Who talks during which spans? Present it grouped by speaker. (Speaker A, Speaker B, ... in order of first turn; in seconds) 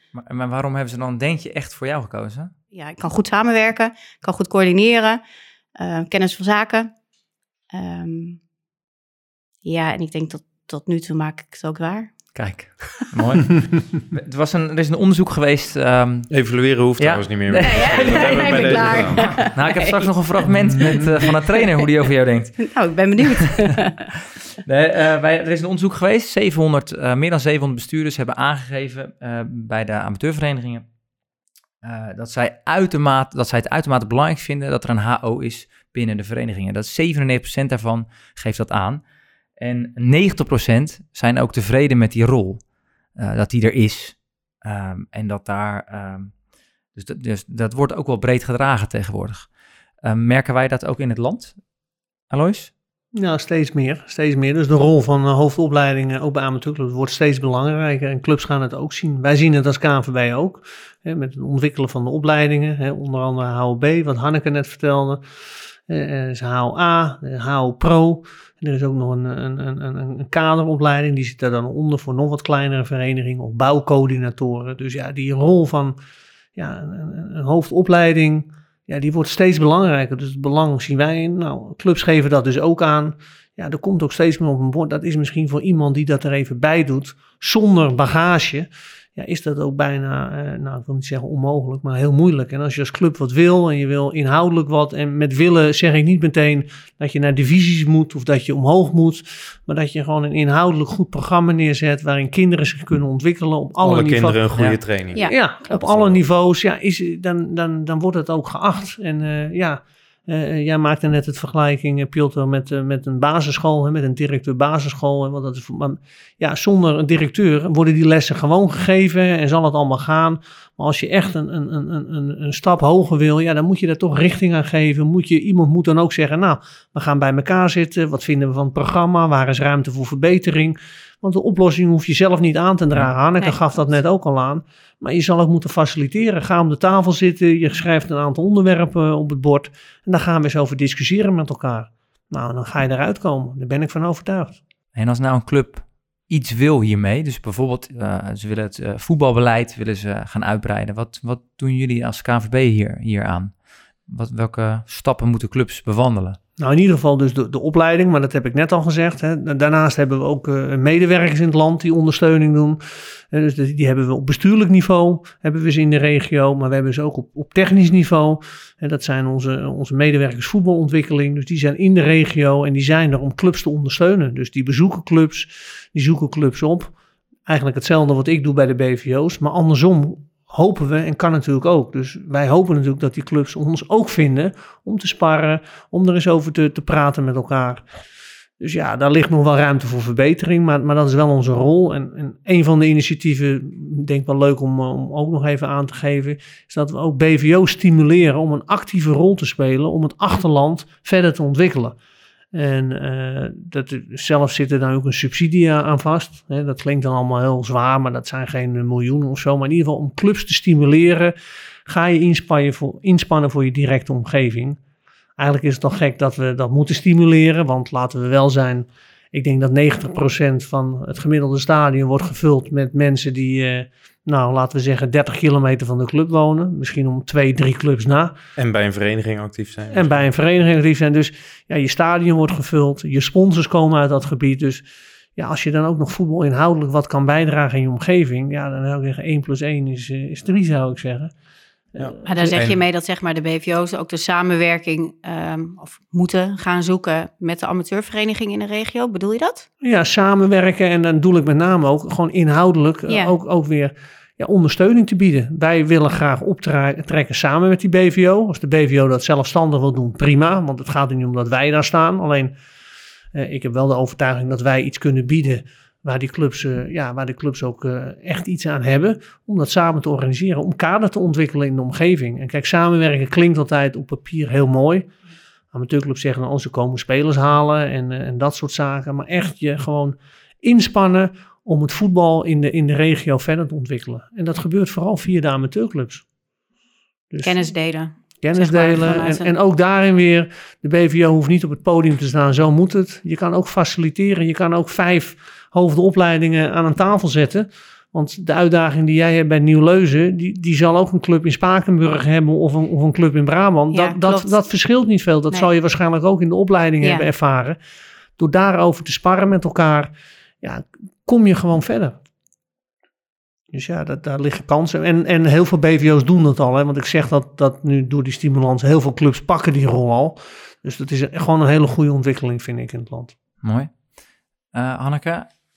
Speaker A: 0.1-2.5, 12.3-16.4, 17.0-22.8, 24.6-30.8, 31.8-39.0, 39.6-42.6, 43.1-46.3, 46.9-49.5, 50.0-51.6, 52.3-52.7, 144.9-153.5, 154.1-156.4, 323.6-323.9, 324.7-325.5
Speaker B: 2.7-5.2, 5.8-6.9, 7.7-8.4, 9.6-12.1, 17.6-20.1, 20.8-21.3, 22.6-24.0, 105.1-105.7, 242.2-249.7, 253.1-253.3, 287.4-289.5, 303.9-304.6, 307.0-307.3
Speaker C: 16.3-19.4, 103.8-106.2, 228.6-230.2, 242.0-242.8
Speaker D: 53.1-65.2, 65.9-76.0, 76.5-104.5, 105.2-144.6, 156.6-162.8, 163.3-176.9, 177.5-187.8, 188.6-202.0, 202.5-211.3, 211.9-214.8, 215.4-228.3, 229.9-234.8, 235.3-241.3, 241.9-242.5, 249.8-262.6, 263.3-275.1, 275.7-286.2, 287.3-287.6, 288.4-307.8, 308.4-310.1, 310.6-312.2, 313.7-323.3